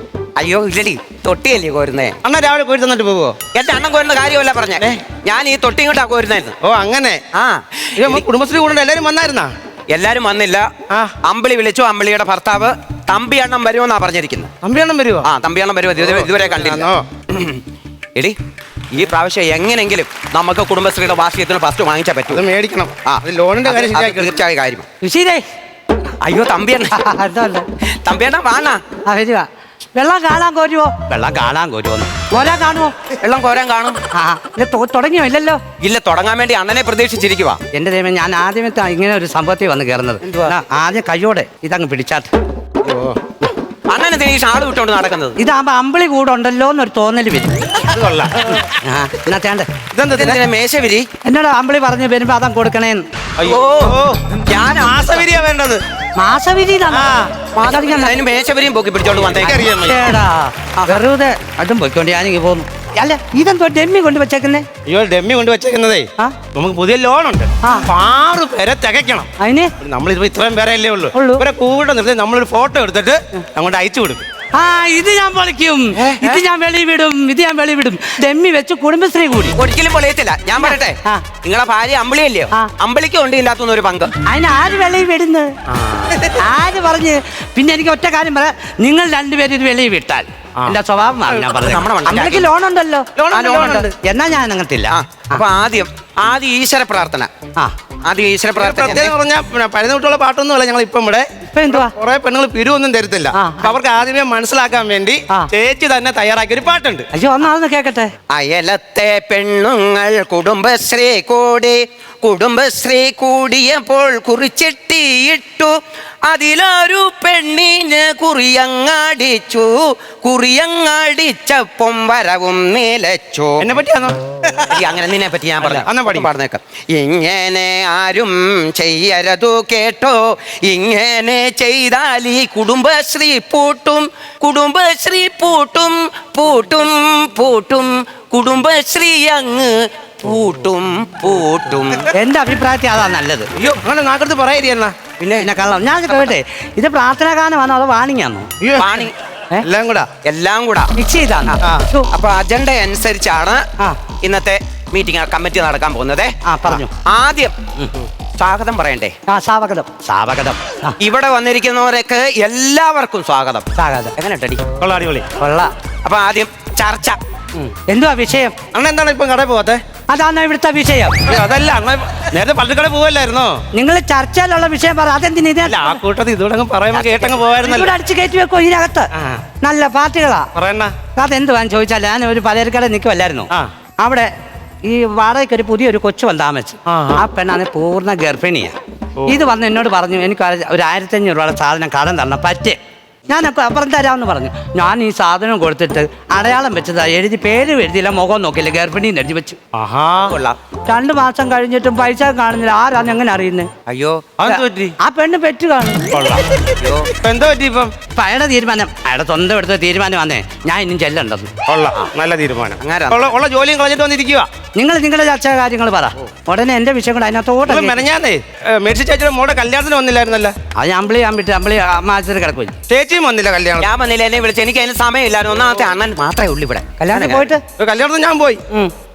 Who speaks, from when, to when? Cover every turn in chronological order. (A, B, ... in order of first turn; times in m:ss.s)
0:00.4-0:02.2 A
0:02.2-0:03.4 B
0:03.5-0:06.6 A
0:06.6-0:07.2 B
0:07.3-0:08.2 A
0:08.0-0:09.5 B
0:09.9-0:10.7 A
0:11.2-0:14.5 A
0:14.6-0:15.3 B
0:15.2-0:17.6 A
0:16.0-0:17.0 B
0:18.9-0:22.4 A
0:22.3-0:24.4 B
0:23.1-0:24.8 A
0:25.0-0:25.4 C
0:26.2-0:27.0 A
0:26.9-0:27.7 C
0:28.0-0:28.8 A
0:29.0-0:32.9 C
0:33.2-0:34.0 A
0:34.1-0:35.6 C
0:35.8-0:37.6 A
0:37.7-0:42.3 C
0:40.2-0:40.6 A
0:42.8-0:43.2 B
0:43.9-0:45.4 A
0:45.4-0:47.6 C
0:47.9-0:48.6 B
0:48.6-0:49.7 C
0:49.9-0:50.4 B
0:50.1-0:51.1 A
0:51.2-0:53.0 C
0:53.4-0:55.8 B
0:53.4-0:55.2 A
0:56.2-0:57.1 C
0:56.9-0:57.5 B
0:57.5-0:59.6 A
0:57.6-0:58.2 C
0:59.2-1:00.1 B
0:59.8-1:04.7 C
1:00.8-1:01.0 A
1:04.9-1:09.3 B
1:09.4-1:09.7 C
1:09.8-1:14.2 B
1:11.1-1:11.4 C
1:14.6-1:19.6 C
1:16.0-1:16.4 A
1:19.6-1:24.1 A
1:20.6-1:21.2 C
1:24.2-1:25.5 C
1:25.7-1:26.4 B
1:26.3-1:35.4 C
1:31.5-1:32.5 A
1:33.2-1:34.0 B
1:33.3-1:33.9 A
1:34.9-1:37.3 A
1:38.1-1:39.1 A
1:38.6-1:47.1 B
1:41.5-1:41.9 C
1:43.3-1:43.7 C
1:47.1-1:48.1 C
1:48.3-1:55.7 A
1:56.3-2:03.7 A
2:03.6-2:04.6 B
2:04.7-2:22.1 A
2:05.6-2:06.3 B
2:22.1-2:23.5 C
2:23.6-2:25.0 B
2:25.2-2:25.5 A
2:25.4-2:28.5 C
2:26.1-2:26.3 A
2:28.6-2:29.1 B
2:28.8-2:29.2 A
2:29.6-2:30.1 B
2:30.2-2:30.9 A
2:31.0-2:32.1 C
2:31.6-2:31.9 B
2:32.1-2:33.6 A
2:34.2-2:37.5 A
2:36.4-2:36.9 C
2:38.4-2:39.2 A
2:39.3-2:41.0 C
2:41.0-2:44.6 A
2:43.8-2:44.1 C
2:44.8-2:45.3 B
2:45.4-2:45.7 C
2:46.0-2:47.2 A
2:47.6-2:48.6 C
2:48.7-2:49.8 B
2:50.1-2:51.3 C
2:51.3-2:53.6 B
2:53.7-2:56.0 C
2:55.6-2:57.9 B
2:56.9-2:57.4 A
2:57.6-2:59.1 C
2:59.2-2:59.4 B
2:59.6-3:00.5 C
3:00.6-3:00.9 B
3:01.2-3:03.5 C
3:04.0-3:04.3 C
3:04.8-3:08.8 C
3:06.9-3:07.2 B
3:09.3-3:12.8 C
3:13.3-3:19.6 C
3:19.7-3:20.4 B
3:20.3-3:20.6 A
3:20.9-3:23.7 C
3:23.9-3:24.4 A
3:24.4-3:25.0 B
3:24.5-3:26.0 C
3:26.1-3:26.6 B
3:26.8-3:27.1 A
3:27.2-3:27.9 B
3:28.2-3:31.5 C
3:31.7-3:34.5 B
3:32.8-3:33.3 A
3:34.8-3:38.0 C
3:37.7-3:40.6 B
3:40.8-3:42.8 C
3:42.9-3:43.9 B
3:43.8-3:47.5 A
3:47.0-3:47.6 C
3:47.8-3:48.6 B